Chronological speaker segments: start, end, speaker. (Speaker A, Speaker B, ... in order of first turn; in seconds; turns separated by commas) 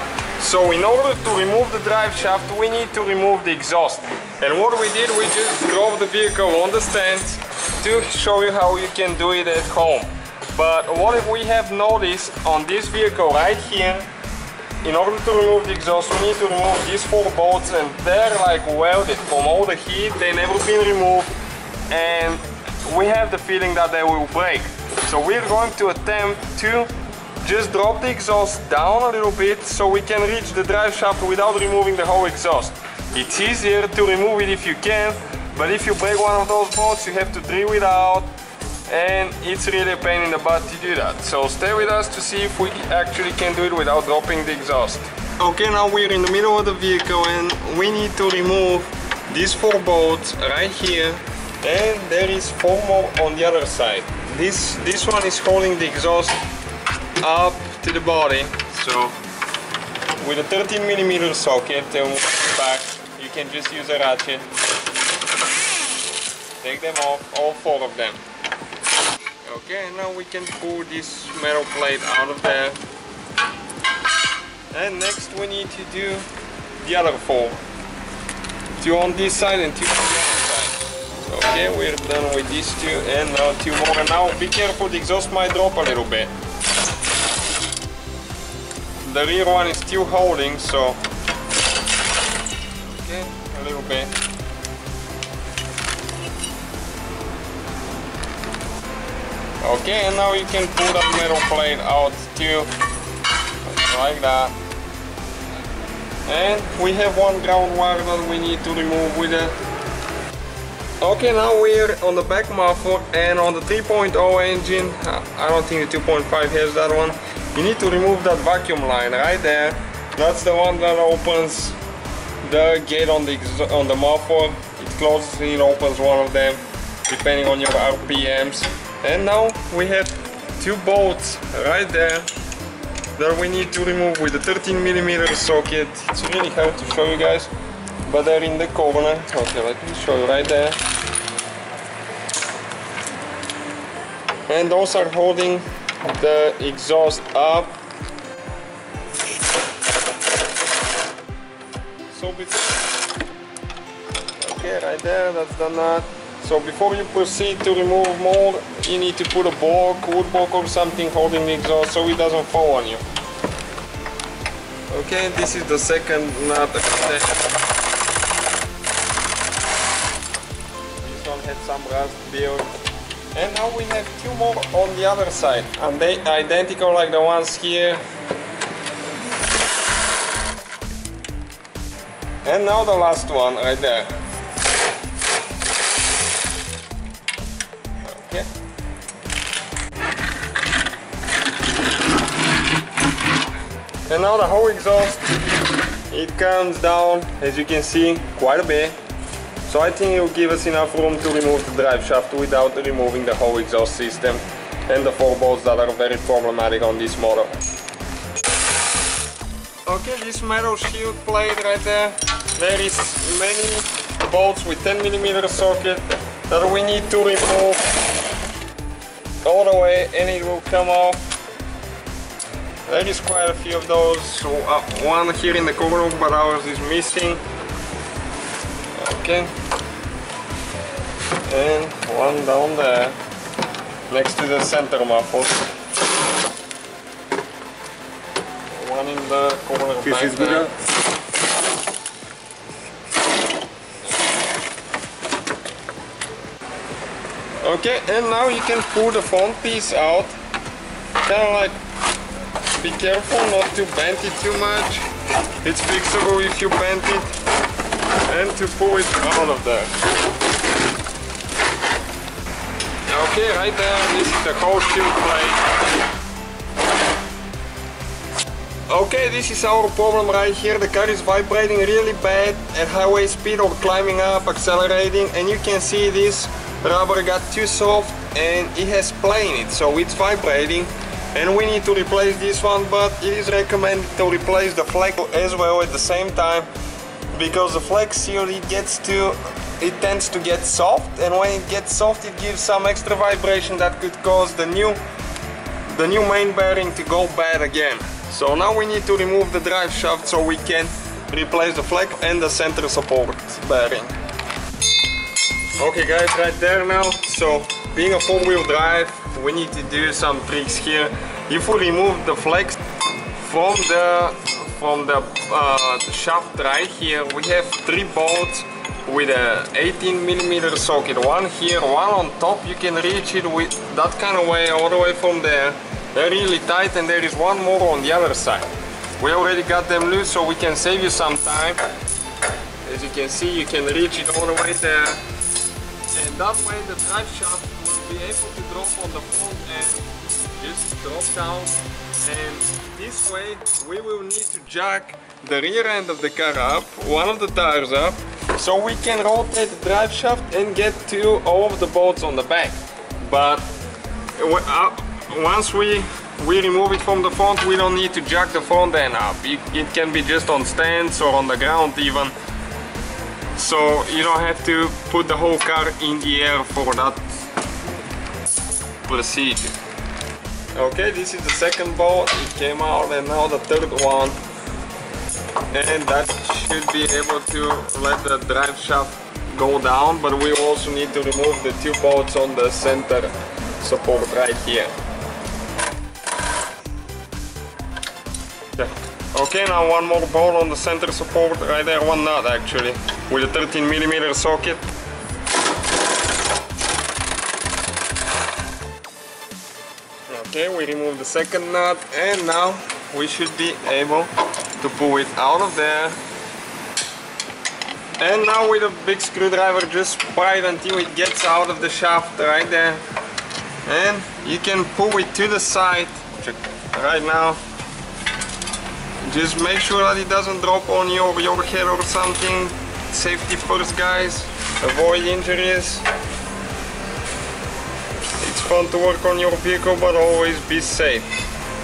Speaker A: 0.4-14.1, Speaker A: 14.8-21.3, Speaker A: 21.9-26.9, Speaker A: 27.4-38.3, Speaker A: 38.9-56.4, Speaker A: 57.2-59.1, Speaker A: 60.2-64.5, Speaker A: 66.6-68.2, Speaker A: 69.5-72.8, Speaker A: 74.7-76.3, Speaker A: 76.8-77.6, Speaker A: 78.8-86.3, Speaker A: 89.0-91.0, Speaker A: 92.8-94.1, Speaker A: 99.6-102.7, Speaker A: 103.6-104.5, Speaker A: 106.3-109.6, Speaker A: 111.0-121.8, Speaker A: 122.4-132.3, Speaker A: 133.2-137.5, Speaker A: 138.1-140.8, Speaker A: 144.5-147.8, Speaker A: 152.1-152.9, Speaker A: 154.4-163.0, Speaker A: 164.9-167.6, Speaker A: 171.0-172.7, Speaker A: 173.3-178.0, Speaker A: 182.4-184.1, Speaker A: 188.0-188.5, Speaker A: 194.1-195.3, Speaker A: 196.1-199.0, Speaker A: 199.7-207.5, Speaker A: 209.9-217.9, Speaker A: 219.4-221.2, Speaker A: 222.9-227.4, Speaker A: 228.9-229.5, Speaker A: 231.5-233.2, Speaker A: 234.1-235.7, Speaker A: 238.7-240.7, Speaker A: 247.6-250.3, Speaker A: 251.2-251.8, Speaker A: 252.8-255.1, Speaker A: 255.6-257.3, Speaker A: 258.3-259.9, Speaker A: 263.1-265.6, Speaker A: 268.9-286.7, Speaker A: 287.3-295.0, Speaker A: 295.9-304.1, Speaker A: 305.8-312.8, Speaker A: 313.4-328.7, Speaker A: 329.2-331.8, Speaker A: 332.9-335.2, Speaker A: 336.1-353.6, Speaker A: 354.4-362.3, Speaker A: 363.6-367.2, Speaker A: 369.1-369.8, Speaker A: 370.8-374.4, Speaker A: 375.7-384.9, Speaker A: 388.8-394.8, Speaker A: 400.3-406.2, Speaker A: 408.2-413.0, Speaker A: 413.9-417.6, Speaker A: 419.2-426.1, Speaker A: 428.4-431.3